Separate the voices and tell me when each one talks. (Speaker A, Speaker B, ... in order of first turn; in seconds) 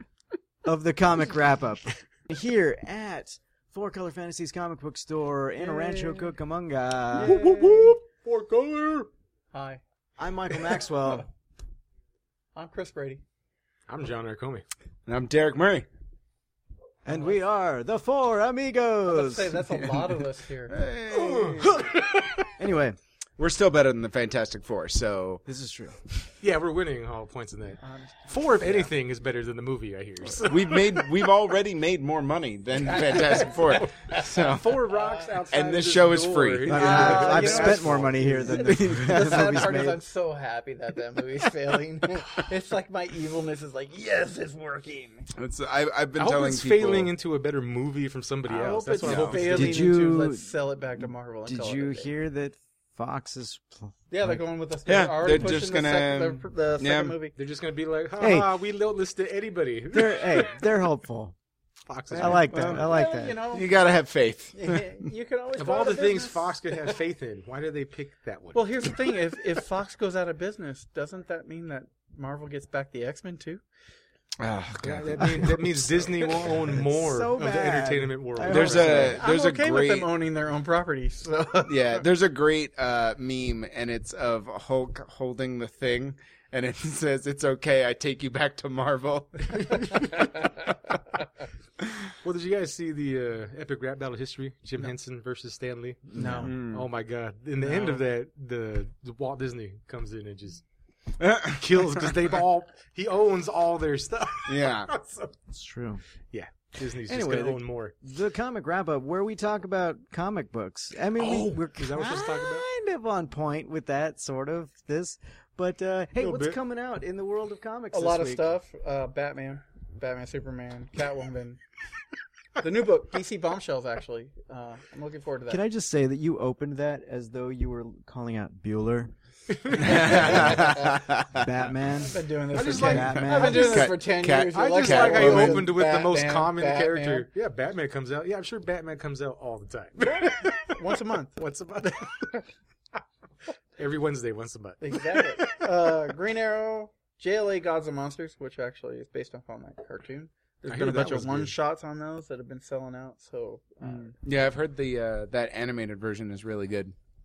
Speaker A: 0.6-7.4, 10.2-11.3, 17.0-19.9, 22.6-23.0, 25.4-26.0, 36.6-40.0, 49.3-50.5, 51.5-54.4, 58.2-58.5, 59.9-61.3, 62.1-63.4, 76.7-79.2, 96.1-96.5, 105.5-106.0, 107.0-118.5, 125.5-129.1, 129.6-133.9
Speaker B: 5.6-6.3, 7.2-7.9, 9.5-9.8, 12.5-13.2, 19.1-20.8, 27.8-28.9, 32.9-33.5, 36.8-45.3, 48.5-52.1, 54.1-57.3, 62.2-63.7, 64.5-67.0, 68.5-73.6, 78.5-82.0, 96.2-96.5, 97.6-98.0, 117.9-121.6, 122.6-125.6, 130.0-130.8, 132.0-137.3, 140.7-142.4, 144.8-154.1
Speaker C: 7.2-9.1, 13.9-14.6, 21.1-22.4, 26.4-31.1, 33.1-38.9, 46.2-49.8, 57.4-60.6, 61.9-62.8, 65.6-69.1, 74.8-79.2, 92.2-100.6, 101.5-105.4, 106.3-107.9, 111.2-112.7, 116.2-116.6, 129.5-130.5, 132.5-133.8, 134.5-142.3, 143.8-145.7, 150.7-151.5
Speaker D: 15.1-15.9, 20.7-21.9, 23.4-25.4, 30.4-35.0, 35.5-37.1, 45.4-47.1, 49.0-49.4, 54.9-57.2, 62.1-62.9, 63.5-65.0, 74.4-76.6, 78.4-80.1, 81.7-90.5, 96.4-96.9, 101.2-102.0, 104.5-104.9, 129.8-131.5, 132.8-135.7, 153.8-156.9